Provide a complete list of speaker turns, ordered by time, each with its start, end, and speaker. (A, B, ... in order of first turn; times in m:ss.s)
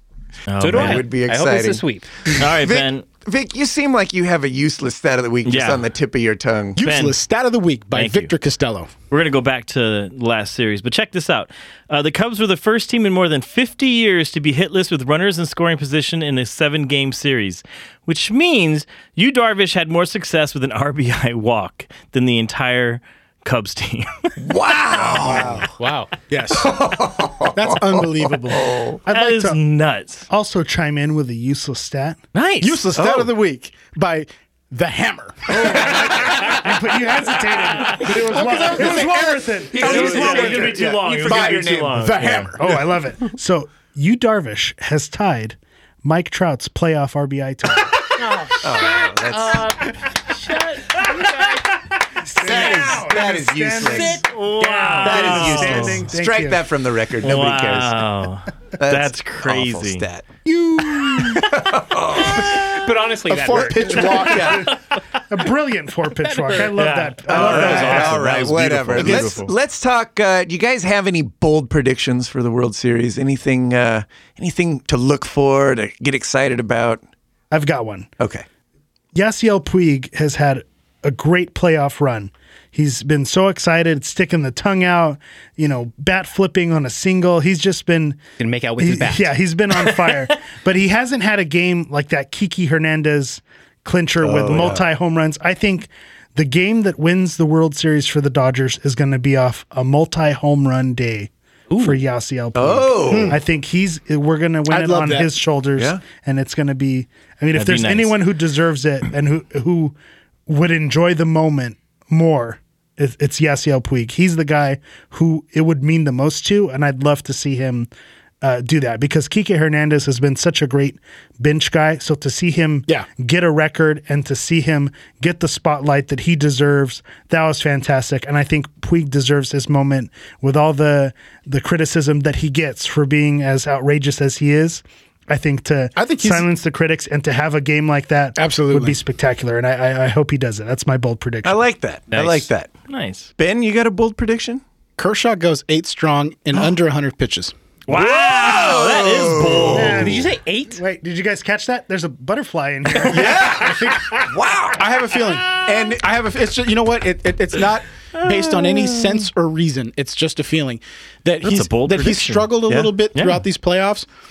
0:00.5-0:01.1 A
0:00.6-0:02.3 B
0:00.7-0:06.8 C
0:02.4-0:03.1 A
0:05.4-0:05.8 A
0:06.8-0:08.9 D
0:06.8-0:07.2 A
0:07.9-0:08.3 A
0:09.1-0:24.3 A
0:24.4-0:25.7 C
0:25.2-0:26.2 B
0:25.3-0:26.8 D
0:26.5-0:29.0 C
0:27.5-0:28.8 D
0:29.0-0:29.6 E
0:29.1-0:30.3 A
0:30.3-0:32.2 E
0:32.3-0:32.8 A
0:32.6-0:36.0 D
0:33.0-0:33.3 C
0:35.5-0:36.6 C
0:35.7-0:40.8 E
0:38.0-0:42.6 D
0:38.3-0:42.8 C
0:39.7-0:42.5 A
0:42.6-0:48.1 E
0:48.2-0:51.7 B
0:48.6-0:49.7 C
0:52.2-0:56.6 E
0:52.4-0:54.2 C
0:52.5-0:52.8 B
0:53.8-0:55.4 B
0:54.3-0:56.0 A
0:55.0-0:58.0 C
0:57.2-1:00.1 A
0:58.8-1:00.4 C
1:00.5-1:01.4 D
1:00.9-1:02.8 C
1:02.3-1:04.8 B
1:03.2-1:04.7 D
1:03.5-1:04.7 C
1:05.3-1:08.3 E
1:06.2-1:07.0 B
1:06.8-1:09.5 A
1:07.3-1:17.0 C
1:07.5-1:08.0 B
1:09.0-1:09.3 D
1:17.5-1:18.1 E
1:18.2-1:18.4 C
1:19.1-1:28.2 E
1:28.4-1:29.3 B
1:28.8-1:50.0 E
1:34.2-1:34.9 C
1:42.6-1:43.4 C
1:43.1-1:43.4 D
1:44.7-1:45.3 D
1:47.5-1:48.2 A
1:50.5-1:57.9 E
1:58.4-2:21.6 E
2:16.0-2:16.5 D
2:18.4-2:19.0 D
2:21.4-2:22.7 C
2:22.1-2:22.5 B
2:22.9-2:23.3 A
2:23.4-2:24.6 C
2:25.0-2:27.5 D
2:27.9-2:30.1 A
2:27.9-2:30.2 C
2:29.7-2:34.2 E
2:30.0-2:30.8 B
2:33.0-2:35.1 C
2:34.8-2:44.1 D
2:41.4-2:42.6 A
2:42.7-2:42.9 C
2:43.1-2:43.4 A